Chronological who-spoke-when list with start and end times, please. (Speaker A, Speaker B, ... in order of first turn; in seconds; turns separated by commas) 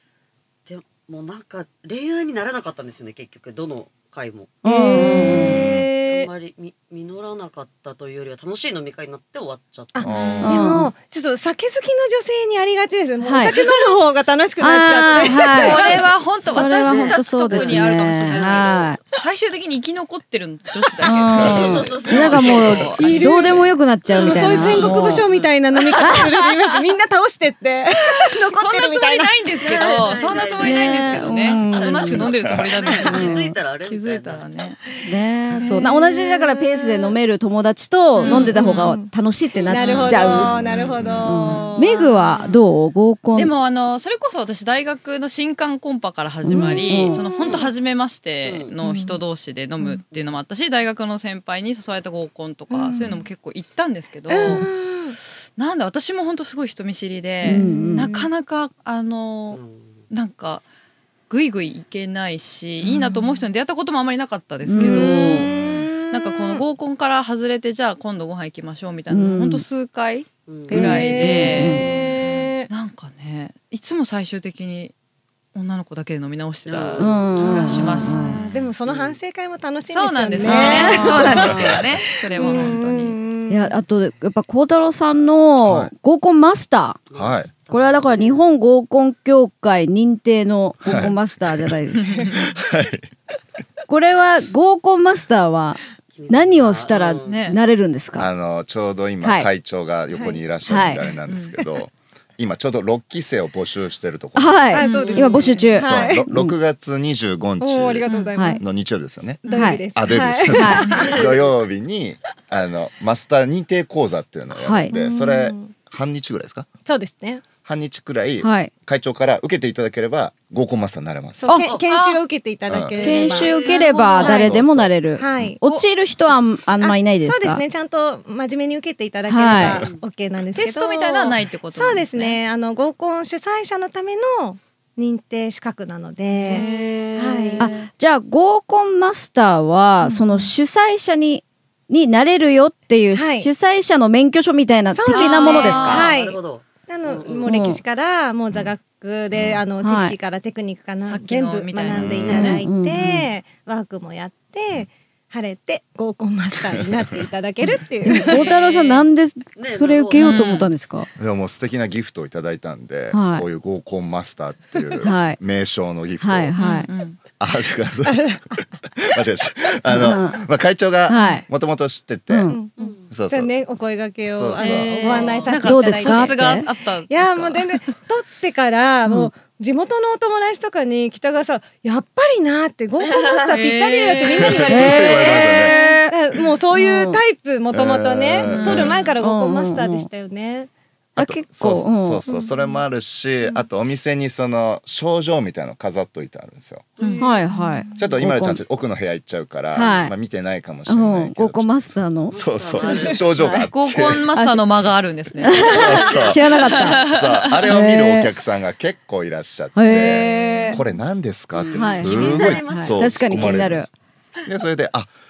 Speaker A: 0.7-10.4, Speaker B: 4.6-5.6, Speaker C: 4.6-6.3, Speaker C: 9.9-16.9, Speaker D: 10.0-10.6, Speaker E: 10.2-10.5, Speaker B: 10.4-10.9, Speaker B: 13.2-13.6, Speaker B: 14.6-19.0, Speaker E: 15.3-23.4, Speaker A: 16.9-18.9, Speaker B: 21.0-25.3, Speaker A: 21.3-23.5, Speaker D: 21.4-21.7, Speaker C: 22.9-30.2, Speaker A: 24.2-25.6, Speaker B: 26.0-26.3, Speaker E: 28.4-34.8, Speaker A: 29.6-34.5, Speaker B: 30.6-32.3, Speaker D: 32.4-32.7, Speaker C: 32.9-33.2, Speaker B: 33.1-33.6, Speaker B: 35.0-40.5, Speaker C: 35.5-37.2, Speaker C: 38.2-39.1, Speaker E: 38.2-39.0, Speaker C: 39.6-42.6, Speaker E: 39.7-41.8, Speaker D: 40.8-41.4, Speaker B: 41.2-43.5, Speaker E: 43.3-54.7, Speaker B: 46.5-47.2, Speaker C: 46.6-47.7, Speaker A: 47.4-47.7, Speaker A: 48.4-48.7, Speaker C: 48.8-49.2, Speaker C: 52.7-53.3, Speaker C: 54.3-55.2, Speaker E: 55.6-60.6, Speaker C: 57.4-58.3, Speaker B: 57.4-58.1, Speaker A: 59.5-60.0, Speaker E: 61.3-74.9, Speaker C: 62.8-63.4, Speaker B: 64.7-65.5, Speaker C: 64.8-66.6, Speaker B: 69.1-69.7, Speaker A: 70.5-72.1, Speaker B: 70.7-71.9, Speaker C: 70.8-72.7, Speaker E: 75.5-78.2, Speaker A: 76.7-79.2, Speaker B: 77.0-78.4, Speaker C: 77.5-83.8, Speaker E: 79.9-83.2, Speaker A: 80.4-82.7, Speaker D: 81.3-81.8, Speaker B: 83.5-87.0, Speaker D: 85.6-85.9, Speaker A: 87.1-88.4, Speaker D: 87.2-87.5, Speaker B: 87.7-92.1, Speaker D: 90.8-91.7, Speaker E: 92.1-92.3, Speaker C: 92.1-92.5, Speaker D: 92.3-93.1, Speaker B: 93.9-98.3, Speaker A: 96.1-97.5, Speaker E: 97.2-97.6, Speaker D: 98.2-104.7, Speaker B: 99.2-99.5, Speaker C: 100.1-100.9, Speaker B: 100.7-101.0, Speaker E: 101.3-101.6, Speaker B: 104.4-106.6, Speaker C: 104.7-106.2, Speaker E: 104.7-105.7, Speaker A: 105.1-105.7, Speaker D: 105.8-108.0, Speaker C: 107.6-108.6, Speaker B: 108.3-108.6, Speaker D: 108.6-109.4, Speaker C: 109.4-111.4, Speaker B: 109.5-109.8, Speaker D: 109.9-116.7, Speaker B: 110.5-110.9, Speaker A: 111.0-111.4, Speaker B: 114.5-114.9, Speaker C: 114.9-115.7, Speaker C: 116.8-117.4, Speaker D: 117.7-121.5, Speaker B: 118.4-118.7, Speaker C: 121.4-124.6, Speaker B: 121.5-121.7, Speaker E: 121.9-122.2, Speaker D: 122.7-123.2, Speaker B: 123.0-127.6, Speaker D: 124.2-125.5, Speaker C: 125.2-125.6, Speaker C: 126.8-137.7, Speaker B: 129.3-129.8, Speaker D: 129.5-129.9, Speaker A: 129.8-130.0, Speaker E: 130.6-132.4, Speaker A: 136.5-137.6, Speaker E: 136.5-137.9, Speaker B: 137.6-146.1, Speaker C: 140.0-140.5, Speaker C: 143.1-143.5, Speaker C: 144.9-158.5, Speaker E: 145.1-146.1, Speaker A: 145.8-147.5, Speaker B: 147.5-147.8, Speaker D: 149.3-149.6, Speaker B: 149.8-150.2, Speaker E: 151.0-152.6, Speaker D: 151.9-152.6, Speaker B: 152.3-153.3, Speaker B: 158.1-161.1, Speaker E: 158.3-159.0, Speaker A: 159.6-160.6, Speaker E: 160.2-160.7, Speaker D: 161.2-166.6, Speaker B: 163.1-163.5, Speaker B: 165.0-165.4, Speaker B: 166.2-166.9, Speaker E: 166.6-167.2, Speaker D: 167.4-172.5, Speaker C: 168.1-168.6, Speaker B: 169.9-170.4, Speaker B: 171.1-171.4, Speaker C: 171.2-171.4, Speaker B: 172.3-172.6, Speaker C: 172.5-190.7, Speaker A: 172.8-173.2, Speaker D: 173.1-173.5, Speaker D: 174.2-175.1, Speaker E: 174.6-177.9, Speaker A: 175.0-175.6, Speaker B: 175.6-176.7, Speaker B: 179.1-179.3, Speaker A: 183.1-183.4, Speaker E: 183.5-184.7, Speaker D: 184.4-185.8, Speaker B: 184.7-186.2, Speaker B: 186.7-187.2, Speaker D: 187.7-189.0, Speaker E: 188.4-189.1, Speaker B: 189.2-190.1, Speaker B: 191.2-192.2, Speaker D: 191.2-196.9, Speaker C: 192.3-192.8, Speaker E: 197.0-197.3, Speaker C: 197.0-198.1, Speaker B: 197.2-198.6, Speaker D: 198.0-204.3, Speaker B: 199.7-200.2, Speaker B: 200.9-202.8, Speaker A: 202.3-203.7, Speaker E: 203.6-207.7, Speaker B: 204.3-204.6, Speaker B: 205.4-207.1, Speaker D: 205.5-213.9, Speaker B: 207.7-208.3, Speaker B: 209.8-210.8, Speaker A: 211.5-213.8, Speaker B: 211.7-213.9, Speaker D: 214.5-215.1